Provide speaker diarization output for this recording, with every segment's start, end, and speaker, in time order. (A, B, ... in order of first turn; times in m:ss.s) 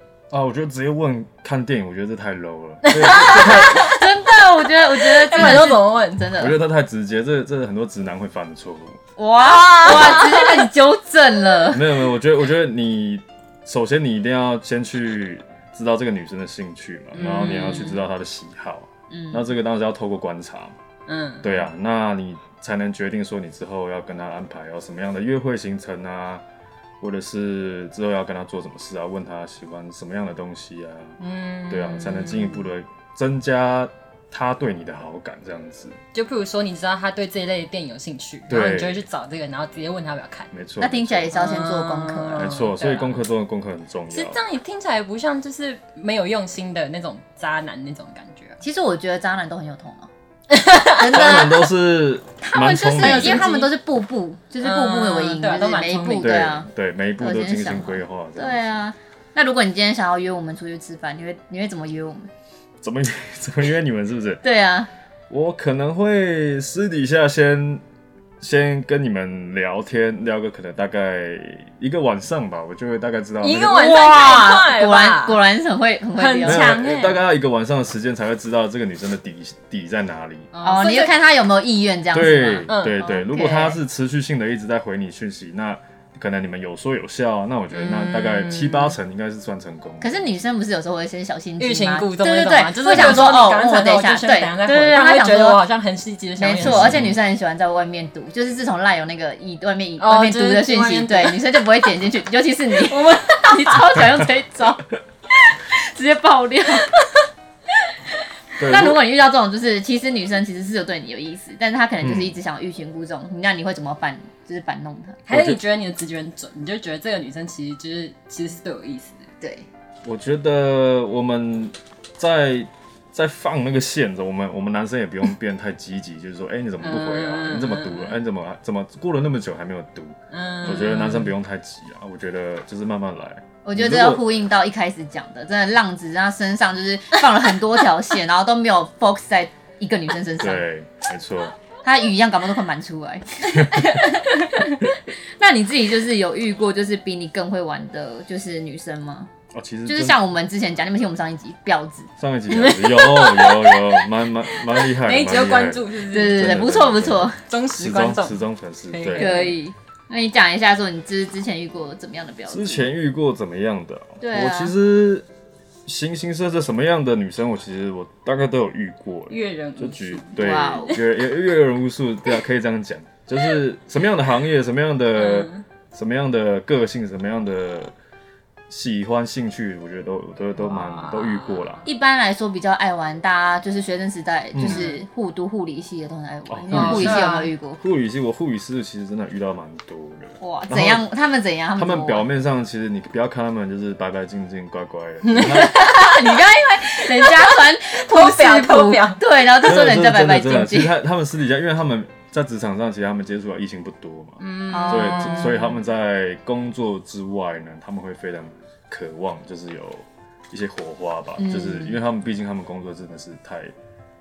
0:00.3-0:03.8 A
0:02.8-0:04.1 B
0:03.2-0:06.6 C
0:04.9-0:06.3 B
0:06.3-0:09.0 A
0:09.2-0:12.0 C
0:09.5-0:10.7 B
0:09.8-0:10.4 A
0:11.7-0:20.8 A
0:17.1-0:18.0 B
0:19.1-0:19.5 C
0:21.1-0:21.7 B
0:21.4-0:26.4 A
0:27.0-0:31.2 A
0:31.2-0:32.7 B
0:31.7-0:36.0 A
0:36.1-0:40.5 B
0:38.5-0:39.0 A
0:40.5-0:41.3 A
0:40.8-0:42.6 C
0:41.3-0:43.2 B
0:42.4-0:44.4 A
0:44.1-0:48.6 B
0:48.6-0:50.1 C
0:50.5-0:51.5 B
0:50.9-0:51.6 C
0:51.0-0:53.5 A
0:52.4-0:56.7 C
0:53.0-0:53.7 B
0:54.6-0:56.5 B
0:56.2-0:58.8 A
0:57.2-1:02.3 C
1:02.8-1:04.4 A
1:04.4-1:04.9 C
1:05.3-1:07.8 A
1:08.4-1:14.0 A
1:13.4-1:15.4 B
1:13.7-1:16.7 C
1:16.2-1:17.2 B
1:16.4-1:20.5 A
1:20.5-1:21.2 B
1:20.6-1:23.8 C
1:22.1-1:30.3 A
1:22.7-1:23.0 B
1:27.7-1:29.0 B
1:30.0-1:35.6 C
1:31.6-1:37.0 B
1:36.4-1:44.8 C
1:36.6-1:37.2 A
1:40.0-1:41.9 B
1:42.8-1:44.0 B
1:45.4-1:46.9 C
1:48.6-1:49.0 A
1:48.6-1:55.2 C
1:52.0-1:52.4 A
1:55.3-1:59.3 B
1:55.3-1:55.6 A
1:59.4-1:59.7 C
2:00.0-2:14.3 A
2:06.8-2:08.2 B
2:10.3-2:11.3 B
2:13.6-2:20.7 C
2:20.4-2:21.6 A
2:21.8-2:24.1 C
2:23.7-2:24.7 B
2:25.1-2:29.3 C
2:29.5-2:30.2 A
2:29.9-2:32.1 C
2:32.2-2:39.5 A
2:32.5-2:36.6 B
2:36.1-2:37.4 C
2:37.4-2:39.6 B
2:39.2-2:42.9 C
2:42.5-2:45.3 A
2:44.2-2:44.7 C
2:45.8-2:57.9 A
2:49.3-2:51.0 B
2:50.4-2:51.0 C
2:55.1-2:55.6 B
2:58.7-3:01.9 A
3:00.6-3:01.8 B
3:01.8-3:07.8 C
3:04.5-3:04.9 A
3:04.7-3:05.0 B
3:06.5-3:11.1 A
3:06.7-3:07.5 B
3:10.4-3:12.3 C
3:11.8-3:15.8 A
3:15.2-3:19.2 B
3:15.5-3:20.9 C
3:19.6-3:33.7 A
3:24.4-3:25.8 B
3:24.7-3:25.6 C
3:31.4-3:32.0 C